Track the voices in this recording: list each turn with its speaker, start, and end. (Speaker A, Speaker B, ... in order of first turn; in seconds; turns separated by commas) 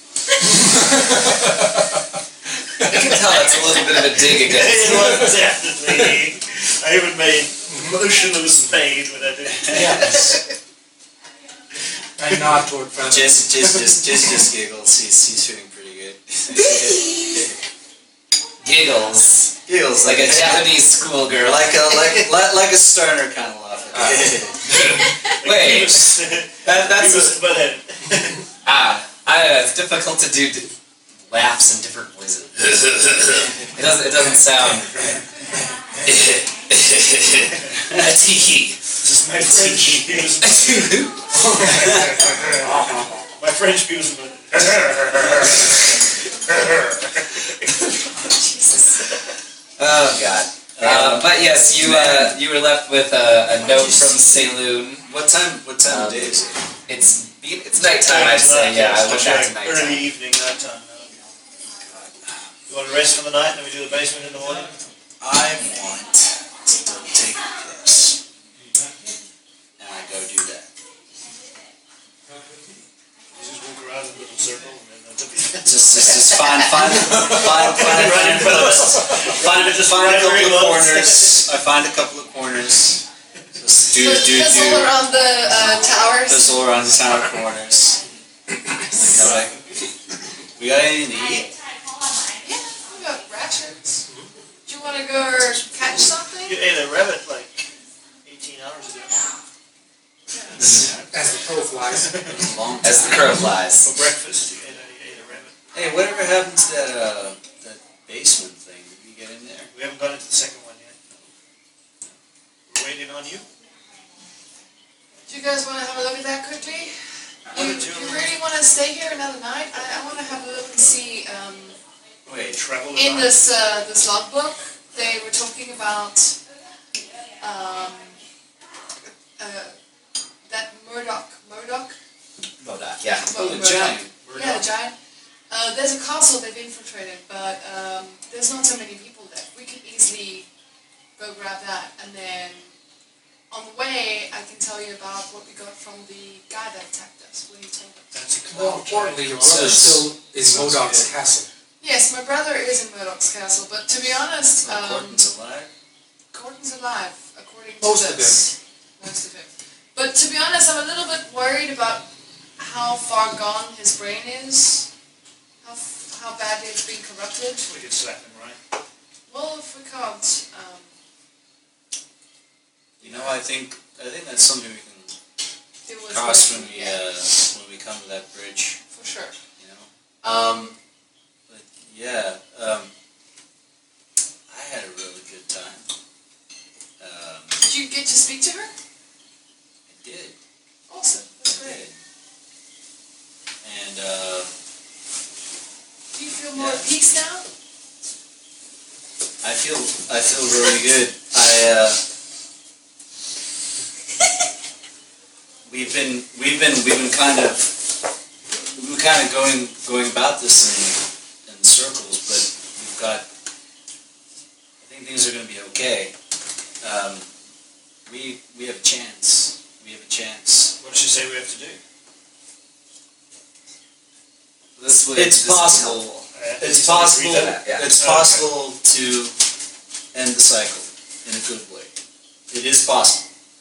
Speaker A: 0.5-1.9, Speaker A: 2.8-3.1, Speaker B: 2.8-5.3, Speaker C: 4.3-10.3, Speaker A: 4.9-5.2, Speaker A: 7.7-8.0, Speaker D: 9.5-10.4, Speaker A: 9.7-10.4, Speaker A: 12.2-14.4, Speaker D: 13.0-17.5, Speaker B: 18.6-22.2, Speaker D: 19.6-20.8, Speaker D: 21.4-24.9, Speaker B: 23.9-27.4, Speaker C: 25.4-28.4, Speaker B: 28.6-30.7, Speaker B: 31.3-35.2, Speaker B: 36.0-41.6, Speaker D: 37.8-38.1, Speaker C: 39.0-42.8, Speaker A: 41.4-42.5, Speaker D: 41.7-42.1, Speaker B: 42.5-43.1, Speaker C: 43.4-46.6, Speaker E: 48.2-49.2, Speaker D: 49.8-52.4, Speaker B: 49.9-55.0, Speaker D: 53.6-54.2, Speaker D: 55.0-56.6, Speaker B: 55.9-60.0, Speaker C: 57.8-61.2, Speaker C: 62.7-64.8, Speaker D: 65.2-68.2, Speaker D: 69.8-70.7, Speaker C: 73.3-76.7, Speaker D: 75.6-83.0, Speaker A: 76.9-77.5, Speaker C: 77.2-81.4, Speaker D: 83.6-85.0, Speaker E: 83.9-86.7, Speaker D: 85.5-88.0, Speaker A: 88.6-89.1, Speaker D: 89.0-89.6, Speaker D: 90.5-91.5, Speaker E: 92.4-94.0, Speaker E: 94.7-96.6, Speaker D: 95.8-96.2, Speaker C: 96.4-97.6, Speaker C: 98.2-99.3, Speaker E: 100.3-100.7, Speaker D: 100.5-101.3, Speaker A: 101.1-102.3, Speaker C: 101.9-102.4, Speaker D: 102.2-103.5, Speaker B: 102.8-103.9, Speaker C: 103.8-105.5, Speaker D: 105.7-109.7, Speaker C: 109.7-111.0, Speaker C: 112.7-113.5, Speaker E: 115.3-116.9, Speaker C: 117.5-118.3, Speaker E: 117.5-121.8, Speaker D: 122.2-122.5, Speaker C: 122.3-123.3, Speaker E: 122.9-126.4, Speaker E: 127.4-128.2, Speaker E: 129.4-129.7, Speaker E: 130.5-131.9, Speaker B: 132.6-133.3, Speaker E: 133.2-134.9, Speaker D: 133.3-134.6, Speaker E: 135.5-140.5, Speaker E: 141.2-142.7, Speaker E: 143.5-148.1, Speaker C: 148.1-149.9, Speaker A: 148.5-151.5, Speaker D: 149.4-151.1, Speaker E: 151.8-155.2, Speaker D: 154.6-155.7, Speaker E: 156.3-162.1, Speaker A: 157.8-158.5, Speaker E: 162.6-164.9, Speaker E: 165.6-167.7, Speaker C: 167.6-168.6, Speaker E: 169.3-170.9, Speaker E: 173.0-173.4, Speaker D: 173.0-175.1, Speaker E: 175.8-177.0, Speaker D: 176.1-178.8, Speaker E: 178.9-179.3, Speaker D: 179.6-180.7, Speaker E: 180.2-180.8, Speaker D: 181.5-182.9, Speaker D: 184.5-185.8, Speaker D: 187.0-187.6, Speaker E: 187.6-188.7, Speaker D: 189.9-190.3, Speaker E: 190.9-191.9, Speaker D: 191.4-191.9, Speaker D: 193.6-194.5, Speaker E: 196.1-197.4, Speaker D: 196.6-196.9, Speaker D: 199.4-202.0, Speaker D: 205.7-207.8, Speaker D: 208.7-213.2, Speaker D: 214.8-216.1, Speaker D: 216.8-217.3, Speaker D: 218.1-220.8, Speaker C: 220.8-221.8, Speaker B: 224.8-226.2, Speaker D: 225.1-229.3, Speaker C: 226.3-228.4, Speaker B: 227.2-227.9, Speaker D: 230.1-231.9, Speaker D: 232.5-233.3